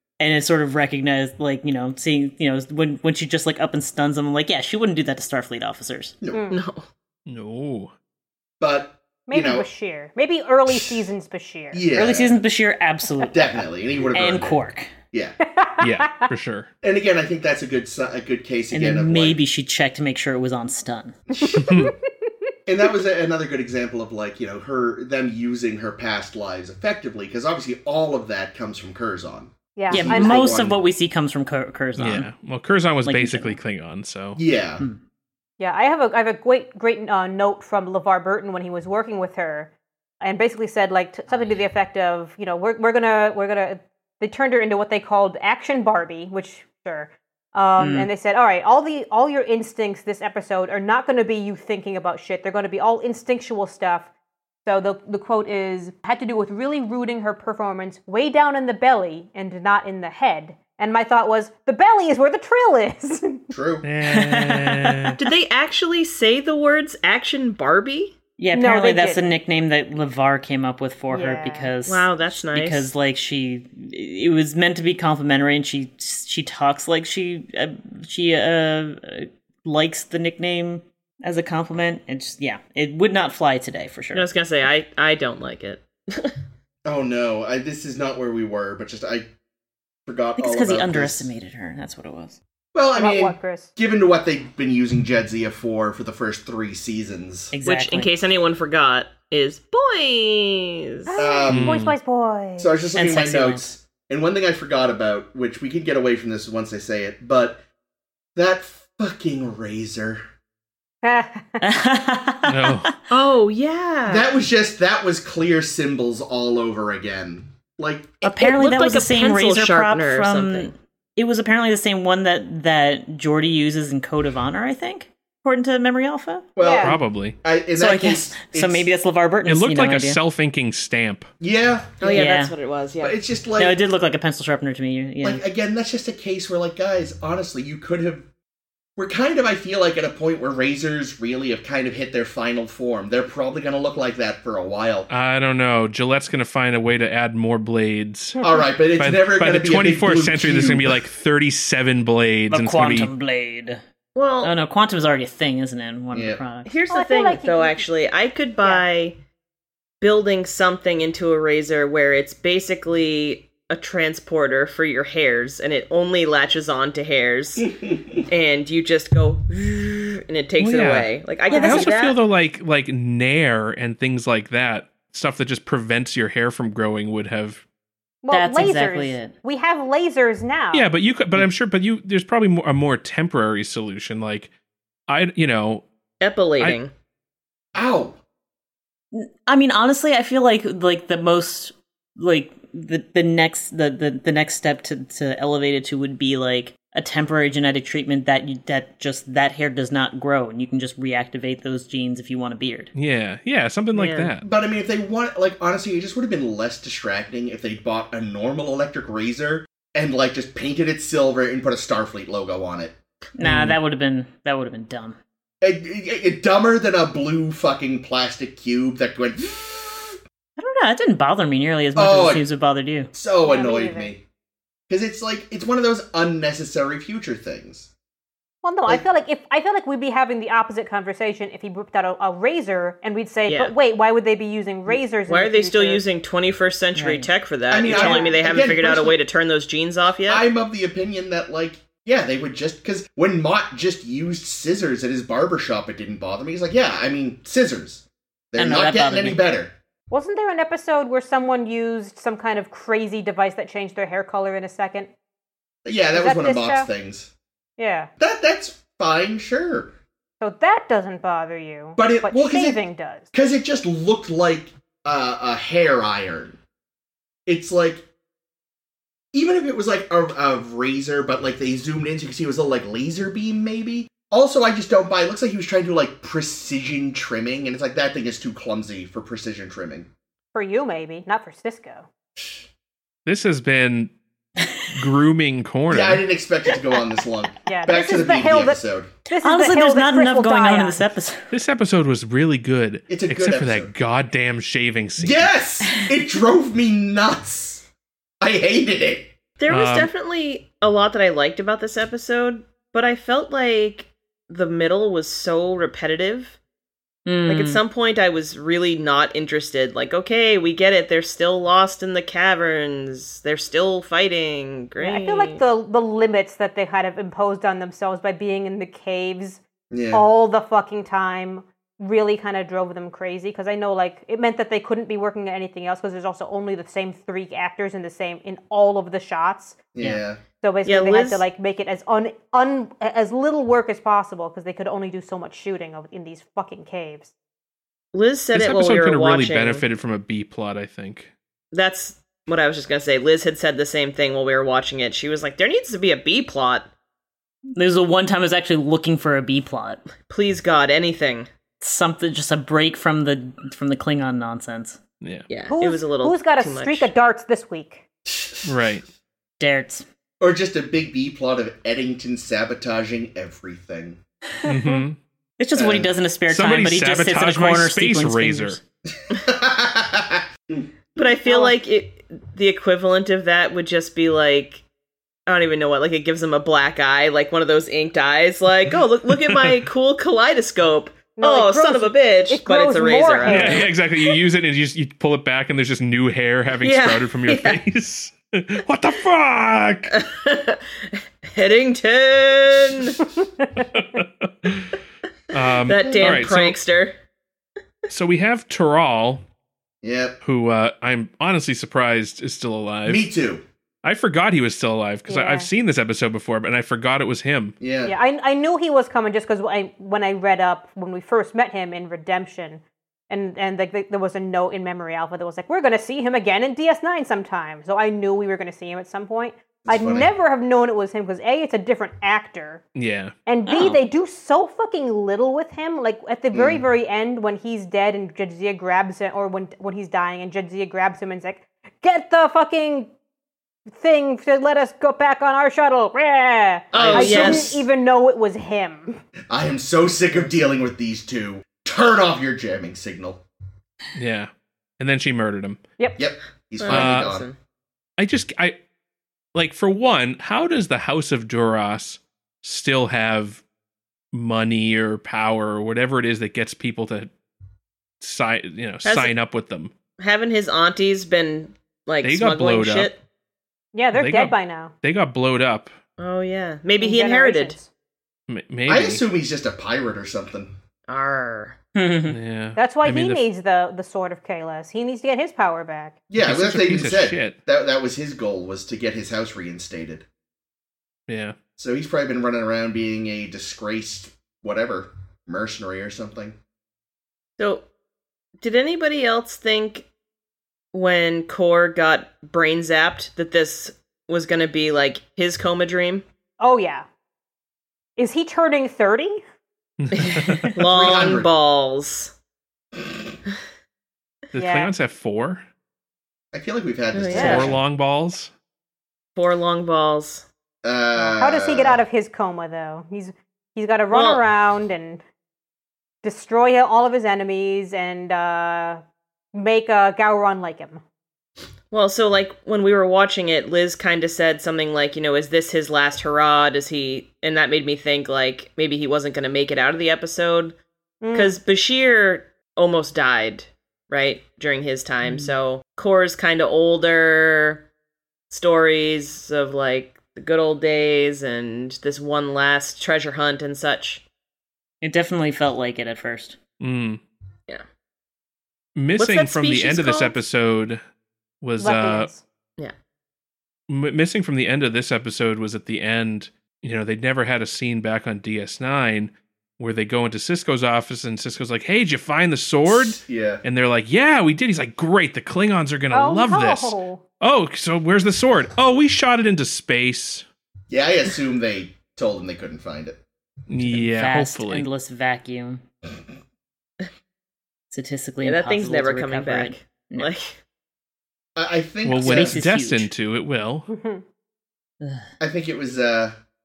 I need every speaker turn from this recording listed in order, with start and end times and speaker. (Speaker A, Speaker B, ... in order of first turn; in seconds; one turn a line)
Speaker A: 0.2-6.2
Speaker B: 6.2-6.5
Speaker C: 6.3-6.6
Speaker D: 6.5-6.8
Speaker E: 7.3-7.9
Speaker B: 8.6-9.7
Speaker C: 9.3-11.9
Speaker B: 10.7-11.1
Speaker B: 11.7-12.4
Speaker A: 11.9-14.9
Speaker B: 13.3-14.6
Speaker C: 15.4-16.3
Speaker E: 15.8-16.7
Speaker B: 16.8-19.4
Speaker A: 18.7-21.2
Speaker B: 21.3-21.7
Speaker C: 21.4-22.3
Speaker E: 21.6-21.9
Speaker B: 22.6-30.8
Speaker C: 29.8-30.6
Speaker A: 29.9-32.3
Speaker E: 32.0-34.4
Speaker A: 33.0-33.6
Speaker B: 34.4-34.8
Speaker C: 35.6-54.1
Speaker A: 47.8-48.1
Speaker C: 54.6-63.5
Speaker B: 63.5-63.9
Speaker E: 63.8-65.2
Speaker A: 64.0-65.2
Speaker D: 65.2-68.2
Speaker A: 68.4-84.2
Speaker C: 68.5-69.2
Speaker C: 71.1-71.7
Speaker D: 71.8-72.9
Speaker D: 84.1-86.3
Speaker B: 86.8-89.3
Speaker B: 90.0-91.3
Speaker A: 90.3-92.4
Speaker B: 92.7-97.5
Speaker C: 93.0-93.7
Speaker A: 97.5-98.1
Speaker D: 97.6-101.2
Speaker C: 101.1-102.7
Speaker B: 101.2-101.8
Speaker E: 101.5-102.0
Speaker B: 102.6-107.6
Speaker A: 102.9-103.7
Speaker B: 108.3-110.2
Speaker C: 111.0-111.7
Speaker A: 111.6-112.9
Speaker E: 112.4-112.9
Speaker D: 113.1-114.3
Speaker B: 114.1-118.3
Speaker A: 118.2-126.5
Speaker D: 118.4-120.7
Speaker B: 126.5-129.0
Speaker C: 126.6-127.0
Speaker E: 126.7-127.4
Speaker A: 127.7-130.2
Speaker E: 129.4-131.3
Speaker B: 131.4-132.3
Speaker D: 132.0-133.2
Speaker A: 132.1-132.5
Speaker B: 133.0-133.8
Speaker A: 133.6-135.4
Speaker B: 135.2-138.3
Speaker B: 138.9-145.1
Speaker E: 145.1-148.4
Speaker B: 148.4-151.1
Speaker E: 149.0-153.1
Speaker A: 152.5-153.8
Speaker D: 154.1-154.5
Speaker A: 154.4-156.7
Speaker B: 156.1-156.4
Speaker D: 156.7-159.2
Speaker C: 156.9-157.8
Speaker D: 160.0-172.2
Speaker E: 170.6-177.6
Speaker C: 171.5-172.0
Speaker C: 178.2-180.9
Speaker A: 178.3-179.3
Speaker E: 180.7-184.5
Speaker E: 185.1-185.8
Speaker D: 186.2-186.9
Speaker B: 187.7-188.2
Speaker A: 189.1-202.9
Speaker E: 202.9-204.4
Speaker D: 203.9-204.3
Speaker B: 204.4-212.9
Speaker A: 213.4-215.2
Speaker E: 213.4-213.8
Speaker B: 215.6-220.2
Speaker A: 220.6-223.1
Speaker B: 221.9-222.4
Speaker B: 223.1-224.2
Speaker C: 223.4-224.1
Speaker B: 224.9-227.9
Speaker C: 228.6-236.0
Speaker D: 233.5-233.7
Speaker D: 234.9-240.4
Speaker A: 236.9-237.3
Speaker B: 237.7-239.2
Speaker C: 237.9-238.4
Speaker B: 240.3-249.7
Speaker A: 248.6-249.4
Speaker C: 250.1-255.1
Speaker B: 255.8-257.3
Speaker C: 256.1-256.9
Speaker C: 257.8-258.1
Speaker B: 258.2-259.9
Speaker C: 260.4-263.3
Speaker B: 262.0-262.8
Speaker B: 263.3-266.6
Speaker B: 267.4-268.0
Speaker B: 269.3-280.1
Speaker C: 280.5-282.1
Speaker B: 282.4-282.6
Speaker E: 283.2-284.1
Speaker E: 284.9-286.2
Speaker B: 285.9-289.1
Speaker C: 287.7-291.0
Speaker A: 289.4-291.6
Speaker E: 291.5-295.5
Speaker B: 293.1-293.9
Speaker B: 295.2-297.9
Speaker B: 298.4-299.3
Speaker D: 299.6-306.6
Speaker E: 299.7-300.1
Speaker A: 307.2-307.8
Speaker D: 307.5-315.6
Speaker C: 315.0-319.6
Speaker B: 319.9-320.2
Speaker C: 320.1-329.8
Speaker B: 329.9-330.4
Speaker C: 330.6-337.3
Speaker D: 330.8-331.4
Speaker D: 338.1-339.8
Speaker E: 338.5-341.3
Speaker D: 341.7-346.9
Speaker A: 347.7-350.0
Speaker D: 350.3-351.5
Speaker A: 351.8-355.0
Speaker E: 355.2-355.5
Speaker D: 355.5-357.1
Speaker C: 355.7-358.0
Speaker B: 358.2-359.0
Speaker E: 358.6-359.0
Speaker A: 359.6-360.1
Speaker B: 360.4-364.2
Speaker C: 364.6-365.0
Speaker E: 364.6-365.2
Speaker A: 365.6-368.8
Speaker B: 365.8-366.1
Speaker E: 366.5-368.8
Speaker B: 369.2-370.9
Speaker D: 371.1-374.8
Speaker C: 371.4-371.7
Speaker D: 375.5-383.9
Speaker E: 379.5-379.7
Speaker C: 381.4-383.9
Speaker E: 383.4-390.1
Speaker D: 386.8-387.8
Speaker D: 390.1-393.2
Speaker E: 393.8-395.0
Speaker E: 395.5-396.8
Speaker D: 395.8-397.1
Speaker C: 396.0-396.4
Speaker E: 398.1-399.4
Speaker B: 400.0-400.4
Speaker E: 400.4-403.2
Speaker B: 403.1-403.6
Speaker E: 404.0-407.8
Speaker C: 405.3-405.7
Speaker B: 407.8-408.1
Speaker C: 408.0-422.9
Speaker B: 419.8-420.3
Speaker E: 422.9-423.3
Speaker C: 423.4-433.1
Speaker A: 423.7-424.0
Speaker B: 426.5-426.8
Speaker C: 433.9-439.2
Speaker B: 436.9-437.8
Speaker D: 436.9-437.8
Speaker B: 439.5-443.4
Speaker E: 444.1-445.8
Speaker B: 446.2-447.5
Speaker D: 446.8-447.6
Speaker E: 446.9-447.4
Speaker E: 448.2-448.8
Speaker E: 449.5-453.6
Speaker E: 454.3-457.3
Speaker E: 458.2-459.9
Speaker D: 459.0-459.3
Speaker D: 460.2-463.2
Speaker E: 462.2-463.1
Speaker C: 463.9-464.9
Speaker E: 464.1-465.9
Speaker D: 466.2-467.8
Speaker C: 467.0-467.9
Speaker E: 468.5-469.2
Speaker B: 468.9-470.8
Speaker D: 471.1-471.8
Speaker A: 471.9-472.4
Speaker E: 472.3-473.4
Speaker C: 472.8-476.2
Speaker B: 476.3-480.2
Speaker E: 476.4-477.6
Speaker E: 481.3-481.6
Speaker B: 481.8-486.6
Speaker D: 487.6-487.9
Speaker D: 488.6-490.1
Speaker D: 490.9-496.2
Speaker C: 496.6-497.1
Speaker C: 498.2-499.4
Speaker E: 500.0-500.7
Speaker D: 500.1-502.3
Speaker B: 500.8-501.5
Speaker E: 504.5-505.6
Speaker C: 504.6-504.9
Speaker B: 506.5-507.8
Speaker D: 507.1-507.7
Speaker C: 507.3-507.7
Speaker E: 507.3-508.5
Speaker D: 509.4-510.4
Speaker B: 510.8-512.0
Speaker C: 511.1-515.2
Speaker D: 514.1-514.4
Speaker C: 516.2-519.0
Speaker C: 519.5-521.0
Speaker D: 521.9-530.7
Speaker C: 531.2-531.5
Speaker D: 531.3-537.8
Speaker D: 538.5-544.2
Speaker A: 545.0-546.6
Speaker E: 546.8-547.2
Speaker E: 549.0-551.0
Speaker D: 549.2-550.4
Speaker E: 551.6-552.3
Speaker C: 551.8-552.4
Speaker E: 553.9-570.4
Speaker B: 562.8-563.6
Speaker C: 566.1-567.2
Speaker B: 570.9-573.2
Speaker E: 573.7-574.9
Speaker A: 573.8-575.8
Speaker A: 577.9-580.3
Speaker D: 578.4-580.6
Speaker B: 581.5-582.6
Speaker E: 582.0-583.9
Speaker A: 582.2-583.1
Speaker C: 583.9-584.2
Speaker A: 585.0-585.3
Speaker B: 585.4-586.4